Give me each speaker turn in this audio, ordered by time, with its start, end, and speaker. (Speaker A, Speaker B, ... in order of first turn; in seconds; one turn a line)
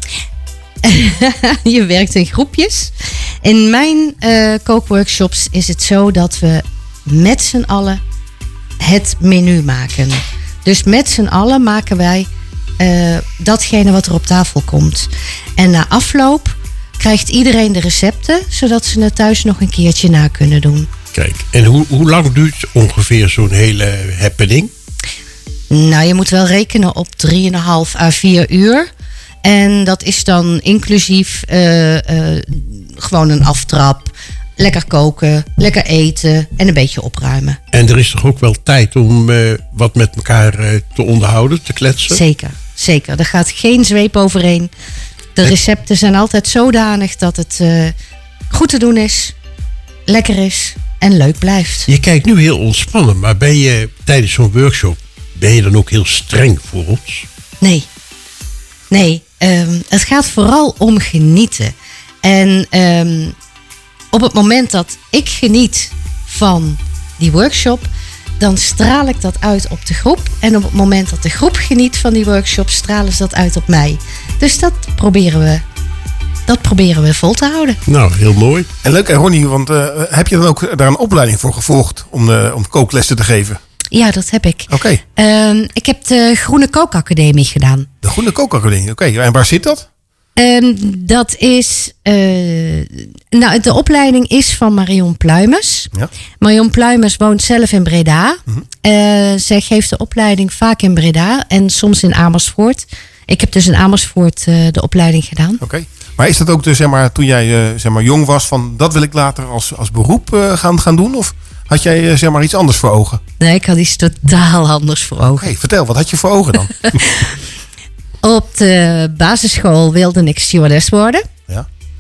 Speaker A: 0.8-8.0
Speaker A: 8.8-12.3
Speaker A: 12.8-20.9
Speaker B: 21.1-24.7
Speaker A: 25.7-28.9
Speaker A: 29.4-37.6
Speaker B: 37.7-42.2
Speaker A: 42.1-44.7
Speaker A: 45.4-48.0
Speaker A: 48.5-49.4
Speaker A: 50.1-51.9
Speaker B: 51.9-57.3
Speaker A: 57.6-57.9
Speaker A: 58.9-63.4
Speaker A: 64.1-67.9
Speaker A: 68.4-75.6
Speaker A: 76.5-77.8
Speaker B: 77.9-78.7
Speaker C: 78.8-83.6
Speaker A: 83.9-87.9
Speaker C: 84.7-85.0
Speaker C: 88.0-89.9
Speaker A: 90.4-105.6
Speaker C: 105.6-113.2
Speaker A: 113.4-115.5
Speaker C: 115.3-117.0
Speaker A: 117.0-117.2
Speaker A: 118.2-121.3